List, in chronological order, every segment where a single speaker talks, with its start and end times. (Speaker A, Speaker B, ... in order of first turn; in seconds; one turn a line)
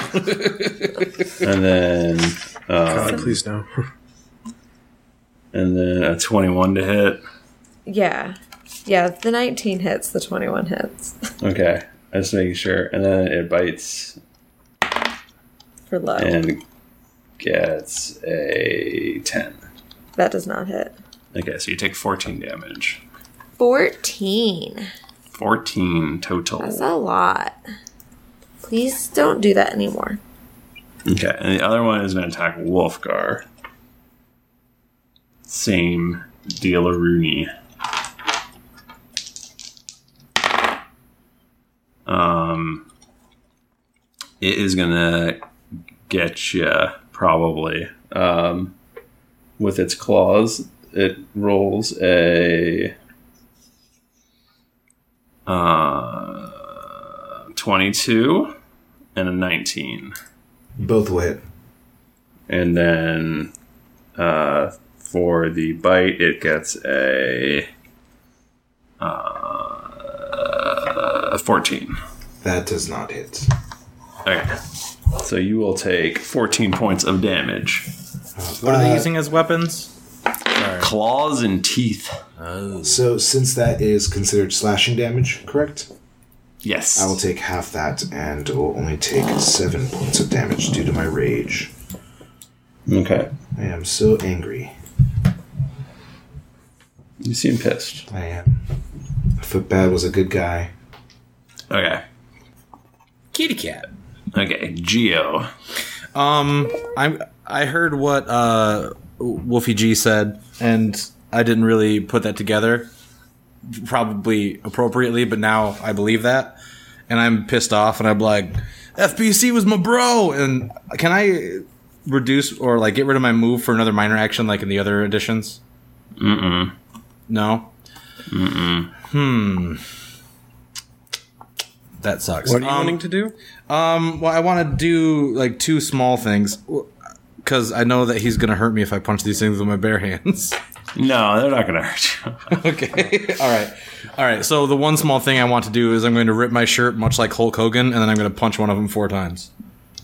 Speaker A: 1.4-3.4
Speaker B: 2.9-3.8
Speaker A: 5.5-7.2
Speaker C: 7.9-11.3
Speaker A: 11.4-14.2
Speaker C: 15.9-16.4
Speaker A: 16.2-16.6
Speaker A: 17.4-19.6
Speaker C: 20.2-20.9
Speaker A: 21.3-23.0
Speaker C: 23.6-24.9
Speaker A: 25.3-26.9
Speaker C: 26.6-27.6
Speaker C: 28.6-30.2
Speaker A: 31.1-33.5
Speaker A: 35.5-37.5
Speaker A: 42.1-42.9
Speaker A: 44.4-45.4
Speaker A: 46.1-48.8
Speaker A: 49.6-52.9
Speaker A: 55.5-58.5
Speaker A: 59.1-60.1
Speaker D: 60.8-61.4
Speaker A: 62.5-63.5
Speaker A: 64.2-67.7
Speaker A: 69.0-72.0
Speaker D: 72.4-73.5
Speaker A: 74.2-77.9
Speaker D: 78.4-79.1
Speaker E: 78.6-79.9
Speaker A: 80.8-82.2
Speaker E: 82.4-83.0
Speaker D: 82.8-85.9
Speaker A: 86.6-87.2
Speaker D: 87.0-91.7
Speaker A: 92.9-93.3
Speaker D: 93.6-94.7
Speaker A: 97.2-98.1
Speaker D: 98.1-98.6
Speaker D: 99.4-100.7
Speaker A: 101.7-102.0
Speaker E: 103.3-103.9
Speaker A: 104.3-105.5
Speaker E: 106.1-112.9
Speaker E: 113.7-116.6
Speaker E: 117.1-125.6
Speaker A: 126.2-126.7
Speaker E: 127.3-127.7
Speaker A: 128.3-128.9
Speaker E: 129.1-129.8
Speaker E: 132.0-133.0
Speaker B: 132.4-133.3
Speaker E: 133.7-136.9
Speaker E: 137.4-140.6
Speaker A: 140.9-142.6
Speaker E: 142.5-149.5